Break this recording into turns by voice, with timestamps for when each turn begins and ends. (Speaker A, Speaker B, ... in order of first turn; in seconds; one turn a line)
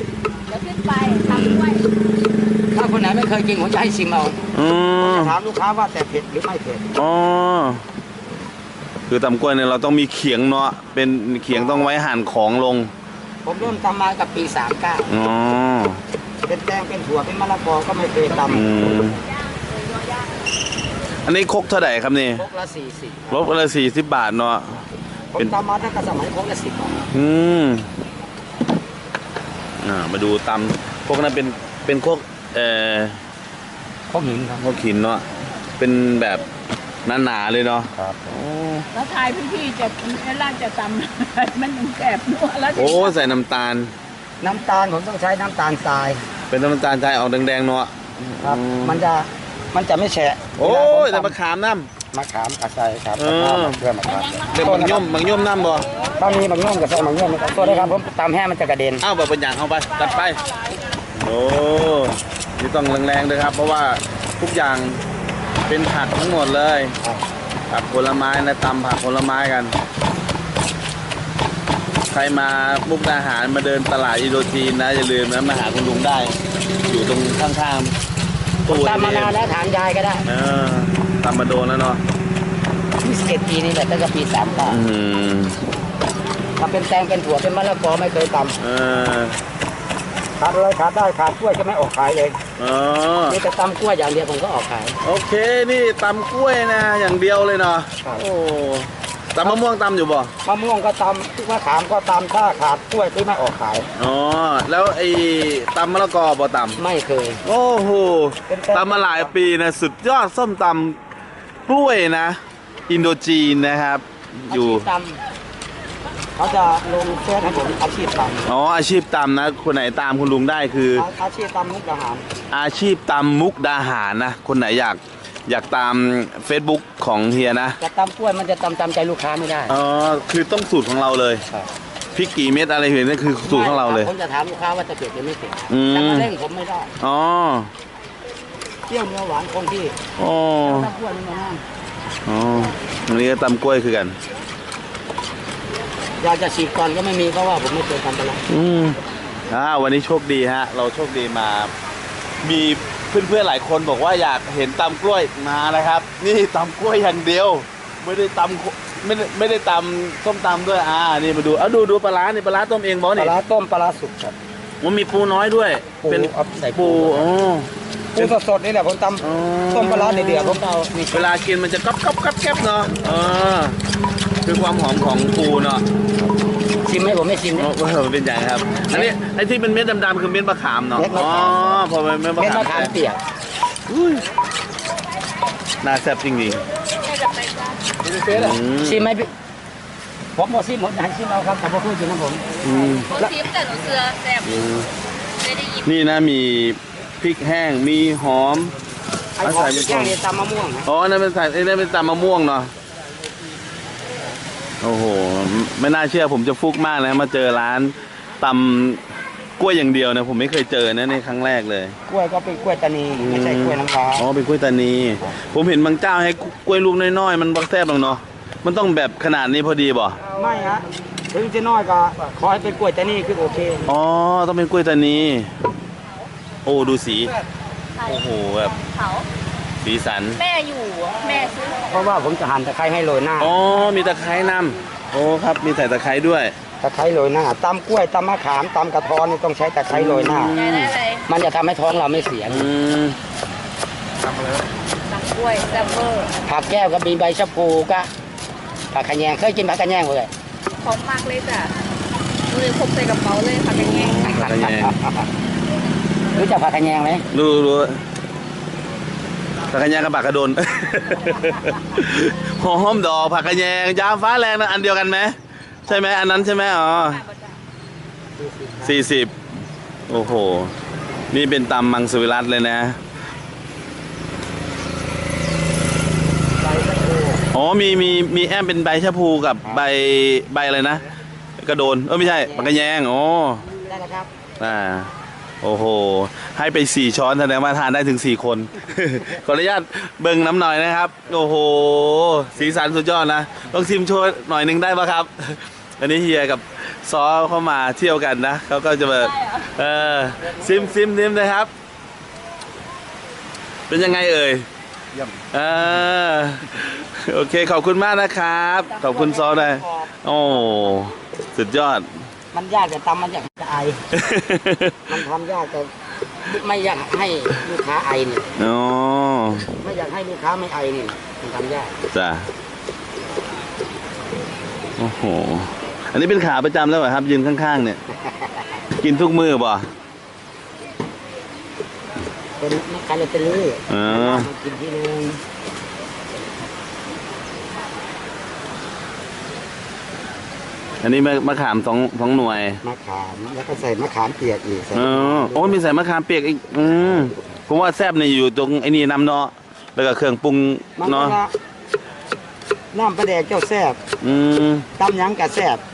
Speaker A: 0.5-1.9
Speaker B: 1.1-1.6
Speaker C: 2.7-4.4
Speaker B: 4.5-5.4
Speaker C: 5.0-6.9
Speaker B: 7.0-7.8
Speaker B: 9.1-12.9
Speaker C: 11.5-11.9
Speaker C: 13.4-15.1
Speaker B: 15.1-16.0
Speaker C: 16.4-18.7
Speaker B: 18.5-19.2
Speaker B: 21.2-22.4
Speaker C: 22.4-23.5
Speaker B: 23.3-25.5
Speaker C: 25.3-27.0
Speaker B: 27.1-27.9
Speaker B: 29.8-33.2
Speaker C: 34.1-34.6
Speaker B: 34.6-35.2
Speaker B: 35.8-36.4
Speaker B: 37.0-38.9
Speaker C: 37.9-38.3
Speaker A: 38.9-43.2
Speaker B: 42.7-43.9
Speaker C: 44.4-46.2
Speaker B: 46.5-49.0
Speaker C: 48.4-51.4
Speaker B: 50.6-51.9
Speaker C: 52.1-55.1
Speaker B: 53.2-53.8
Speaker A: 54.1-55.3
Speaker B: 54.5-55.9
Speaker C: 56.2-59.0
Speaker B: 57.5-58.0
Speaker B: 59.0-60.4
Speaker B: 61.1-65.0
Speaker B: 65.7-67.0
Speaker B: 67.7-69.8
Speaker B: 72.1-78.0
Speaker B: 78.7-79.4
Speaker C: 78.7-80.3
Speaker B: 80.3-82.0
Speaker C: 83.0-84.8
Speaker B: 84.7-85.6
Speaker C: 86.6-88.6
Speaker B: 88.6-89.4
Speaker C: 90.4-92.4
Speaker B: 92.6-93.4
Speaker C: 93.3-95.0
Speaker B: 95.0-100.3
Speaker C: 100.5-103.9
Speaker B: 104.0-106.8
Speaker C: 106.8-107.4
Speaker B: 107.4-111.0
Speaker C: 108.5-109.3
Speaker B: 111.7-114.9
Speaker C: 114.5-115.2
Speaker C: 116.4-118.5
Speaker B: 118.5-121.1
Speaker C: 120.9-122.2
Speaker B: 122.5-127.8
Speaker C: 127.8-129.8
Speaker B: 129.7-131.4
Speaker B: 132.1-134.1
Speaker C: 133.4-136.9
Speaker B: 135.7-136.3
Speaker B: 137.0-137.7
Speaker C: 138.9-140.0
Speaker B: 140.2-140.9
Speaker C: 140.6-141.6
Speaker B: 142.3-144.2
Speaker C: 146.2-148.4
Speaker B: 148.5-151.7
Speaker B: 152.4-163.4
Speaker C: 163.2-164.4
Speaker B: 164.8-168.4
Speaker C: 166.0-167.3
Speaker C: 168.1-171.3
Speaker B: 169.2-173.8
Speaker B: 174.4-175.8
Speaker C: 176.8-177.7
Speaker B: 177.6-183.0
Speaker C: 180.9-181.8
Speaker C: 182.4-183.2
Speaker B: 183.9-184.2
Speaker B: 185.8-186.6
Speaker A: 187.0-187.8
Speaker C: 188.2-189.3
Speaker B: 188.2-189.1
Speaker C: 190.4-192.5
Speaker B: 192.6-193.1
Speaker A: 193.1-194.7
Speaker B: 194.4-194.9
Speaker A: 195.4-195.8
Speaker B: 195.8-198.7
Speaker C: 199.4-200.9
Speaker B: 199.4-200.2
Speaker B: 200.9-202.7
Speaker B: 204.8-209.0
Speaker B: 209.6-212.0
Speaker C: 212.1-214.2
Speaker B: 213.2-220.2
Speaker C: 220.3-223.9
Speaker B: 223.9-225.5
Speaker B: 226.7-227.3
Speaker B: 228.1-228.8
Speaker A: 228.8-229.3
Speaker B: 229.8-230.4
Speaker A: 230.4-231.9
Speaker C: 231.9-233.5
Speaker B: 233.4-236.5
Speaker C: 236.8-240.6
Speaker B: 239.9-241.0
Speaker A: 240.5-241.3
Speaker C: 241.3-242.7
Speaker B: 242.5-243.2
Speaker A: 245.1-246.3
Speaker C: 246.5-248.1
Speaker C: 248.9-250.3
Speaker A: 250.8-251.7
Speaker A: 252.5-254.3
Speaker B: 253.7-254.9
Speaker C: 254.2-255.3
Speaker C: 256.3-257.3
Speaker B: 257.3-258.0
Speaker B: 259.7-267.2
Speaker C: 265.9-266.2
Speaker C: 268.4-269.0
Speaker B: 268.8-269.3
Speaker B: 270.1-270.7
Speaker B: 271.3-273.0
Speaker C: 276.6-277.4
Speaker B: 277.5-281.1
Speaker B: 281.6-283.7
Speaker C: 282.2-282.8
Speaker C: 283.9-284.3
Speaker B: 284.6-285.1
Speaker B: 285.6-301.7
Speaker C: 300.4-301.0
Speaker B: 303.9-304.7
Speaker B: 305.5-312.1
Speaker C: 308.9-310.9
Speaker C: 312.5-314.0
Speaker B: 314.1-315.1
Speaker C: 315.1-315.9
Speaker C: 316.4-318.5
Speaker B: 318.6-319.7
Speaker C: 319.7-322.0
Speaker B: 322.1-322.5
Speaker B: 325.0-328.0
Speaker C: 328.2-328.7
Speaker B: 329.0-329.9
Speaker C: 332.6-335.4
Speaker B: 333.9-334.5
Speaker B: 341.0-342.8
Speaker C: 342.8-345.8
Speaker B: 344.9-351.4
Speaker C: 351.0-351.5
Speaker C: 352.9-354.0
Speaker B: 354.2-354.9
Speaker C: 355.0-355.8